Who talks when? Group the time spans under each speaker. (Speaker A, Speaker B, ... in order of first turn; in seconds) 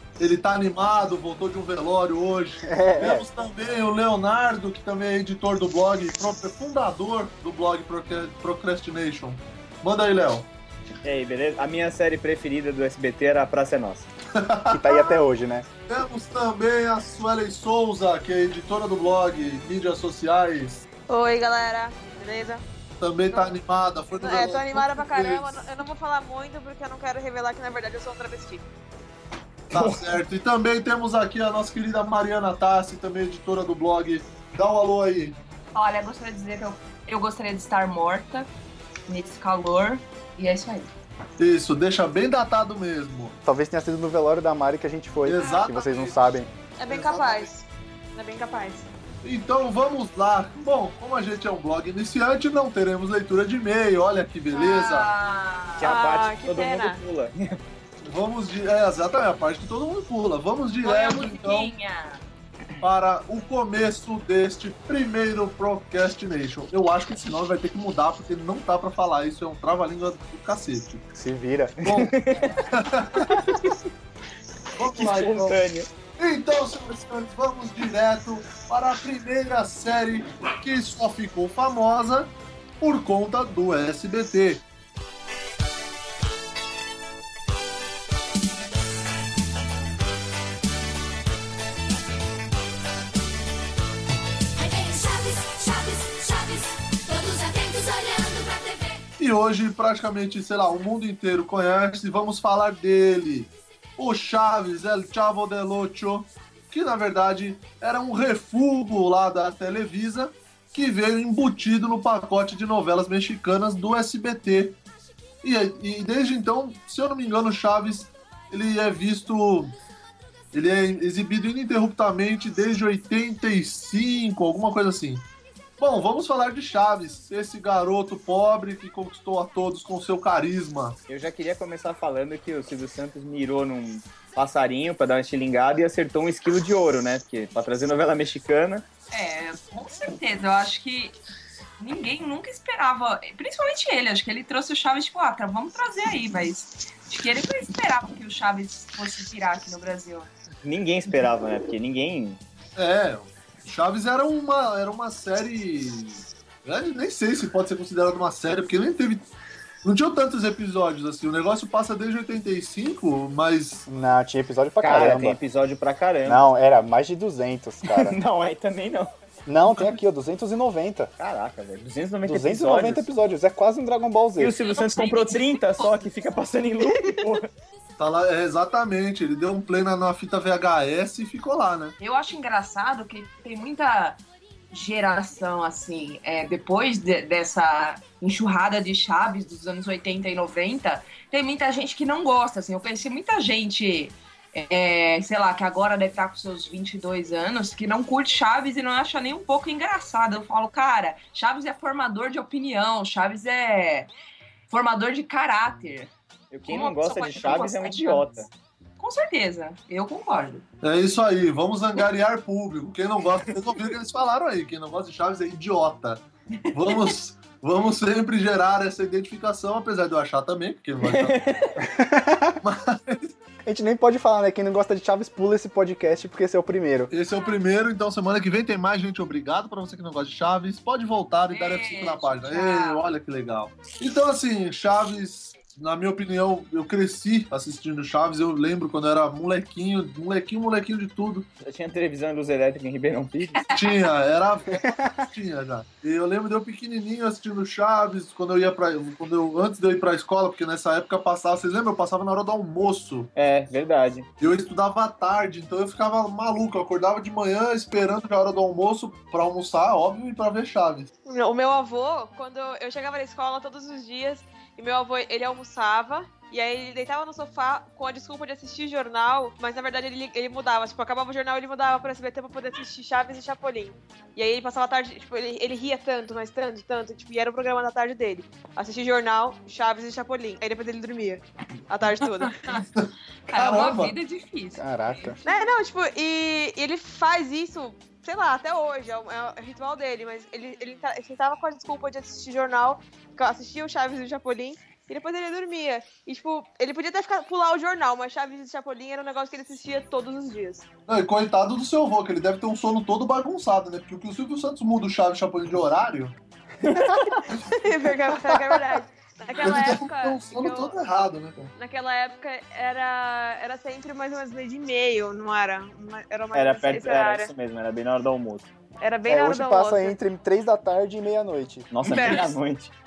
Speaker A: 0.2-10.5, 14.3-15.1, 15.9-20.8, 23.0-25.6, 29.7-35.4, 41.4-43.4, 45.2-46.4, 46.9-47.5, 49.2-55.1, 58.0-61.7, 62.8-71.1, 71.8-73.5, 74.7-75.6, 76.2-84.6, 99.2-114.8, 115.4-119.7, 120.5-125.2, 125.8-131.0, 152.8-159.3, 159.8-163.9, 178.0-181.9, 210.8-221.4, 222.6-223.3, 227.1-241.5, 243.7-253.3, 254.4-261.1, 282.9-284.1, 301.1-306.4, 309.6-311.7, 322.1-322.4
Speaker B: 2.6-3.3, 14.7-15.7, 43.4-46.5, 71.1-71.8, 163.9-165.4, 166.2-168.2, 169.4-171.1, 172.2-174.6, 221.8-222.6, 223.6-227.1, 244.7-245.2, 284.8-285.4, 306.8-307.2, 319.2-321.9
Speaker C: 11.0-14.1, 29.7-30.2, 55.8-57.6, 71.8-72.7, 74.8-75.9, 131.1-138.8, 150.6-152.4, 164.8-166.5, 167.8-169.1, 171.2-173.1, 174.4-177.5, 206.5-208.5, 221.0-221.8, 241.6-243.7, 253.3-254.3, 306.8-307.4, 316.5-318.7, 321.9-322.9
Speaker D: 21.1-22.6, 24.1-28.6, 46.8-48.9, 55.8-57.0, 261.2-282.8, 285.4-300.8, 307.5-311.0, 311.8-317.5, 319.0-320.2, 322.1-322.6
Speaker E: 35.7-38.5, 39.1-40.9, 54.5-55.9, 60.8-62.2, 139.1-141.2, 141.8-150.3, 174.6-176.0, 182.0-184.2, 184.7-204.1, 204.7-206.1, 206.7-208.4, 209.0-210.6, 216.6-217.1, 231.5-233.0, 282.4-282.9, 283.5-285.7
Speaker F: 94.6-99.0